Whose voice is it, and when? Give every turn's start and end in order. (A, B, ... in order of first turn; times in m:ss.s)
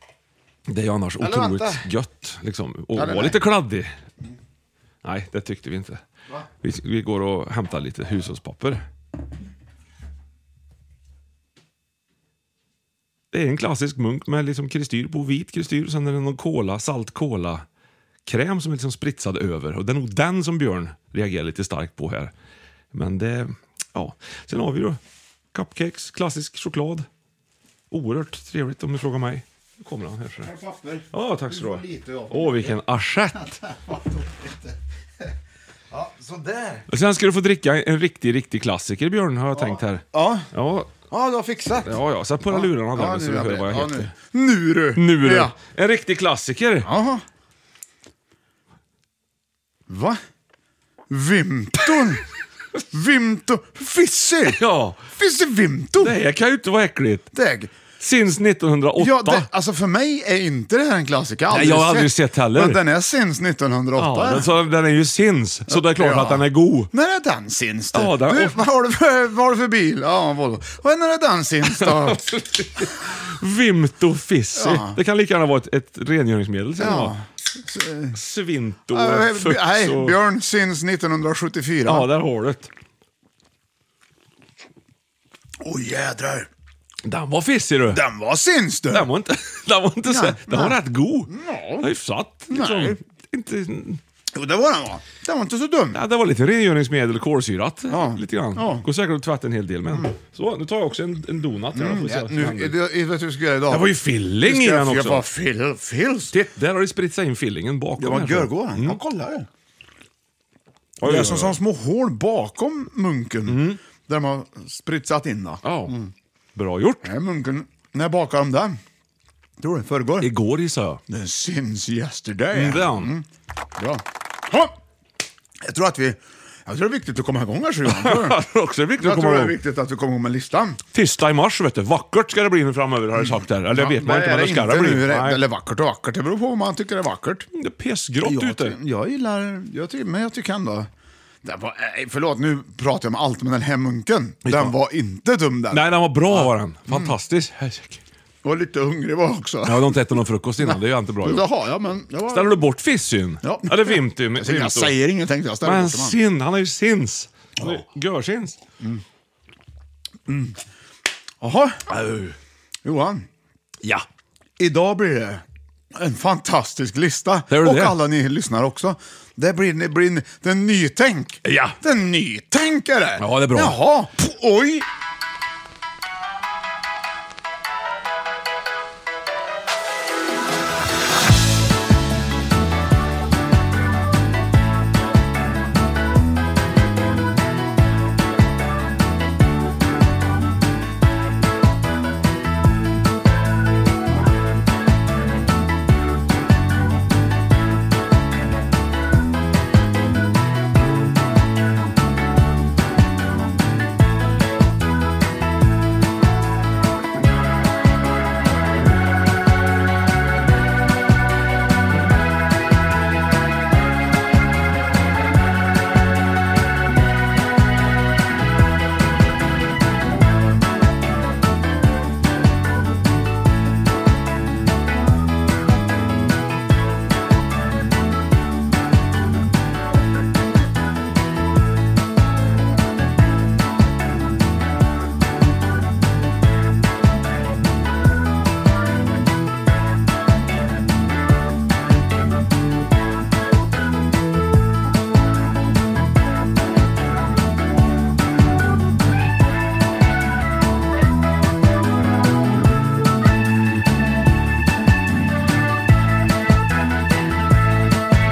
0:00.7-0:04.0 A
0:01.2-0:01.8 B
0:02.9-0:03.4 B
0:05.0-0:06.0 A
0:06.6-0:08.8 A
0:13.3-0:17.6 A
0:18.2-0:22.3 A
0:22.9-0:25.0 A
0:25.5-0:27.1 A
0:27.9-0:30.5 A
0:30.4-0:32.7 B
0:31.1-0:33.6 A
0:33.6-0:34.7 B
0:35.9-0:36.8 B
0:36.9-0:41.0 A
0:39.6-0:40.5 B
0:41.1-0:42.0 B
0:41.8-0:44.1 A
0:42.5-0:45.5 B
0:45.0-0:46.9 A
0:46.8-0:47.2 B
0:49.9-0:50.2 B
0:51.1-0:52.2 B
0:52.9-0:54.6 B
0:54.5-0:55.0 A
0:55.1-0:56.2 B
0:56.0-0:57.3 A
0:57.3-0:57.7 B
0:58.0-0:59.5 A
0:59.0-1:04.5 B
1:01.5-1:02.8 A
1:04.0-1:06.9 A
1:05.7-1:12.3 B
1:07.9-1:08.6 A
1:11.8-1:17.2 A
1:14.6-1:15.0 B
1:16.8-1:18.2 B
1:18.1-1:20.2 A
1:18.9-1:22.1 B
1:21.8-1:22.7 A
1:25.6-1:26.5 B
1:27.0-1:28.0 A
1:27.9-1:29.1 B
1:28.9-1:34.0 A
1:30.1-1:31.9 B
1:32.5-1:33.0 B
1:34.3-1:36.0 B
1:35.9-1:42.8 A
1:37.9-1:38.8 B
1:41.7-1:43.9 B
1:43.7-1:45.2 A
1:44.4-1:46.3 B
1:46.3-1:49.0 A
1:48.0-1:49.5 B
1:51.0-1:51.6 A
1:51.0-1:56.1 B
1:53.5-1:53.8 A
1:55.6-1:55.9 A
1:56.5-1:57.1 A
1:57.0-1:58.8 B
1:59.6-2:00.3 B
2:00.2-2:01.0 A
2:01.1-2:04.7 B
2:02.5-2:03.1 A
2:05.6-2:08.4 B
2:07.8-2:09.5 A
2:09.0-2:10.8 B
2:10.9-2:15.4 A
2:13.2-2:17.5 B
2:17.5-2:18.8 A
2:18.2-2:20.9 B
2:21.4-2:27.1 B
2:24.4-2:24.7 A
2:25.7-2:28.0 A
2:28.4-2:30.0 B
2:29.6-2:31.4 A
2:30.6-2:32.6 B
2:32.3-2:34.9 A
2:33.4-2:36.2 B
2:35.6-2:38.6 A
2:40.3-2:40.6 B
2:41.4-2:41.8 B
2:41.9-2:42.4 A
2:42.8-2:43.2 B
2:44.6-2:45.4 B
2:45.9-2:54.8 B
2:47.5-2:48.0 A
2:51.4-2:51.8 A
2:53.2-2:53.8 A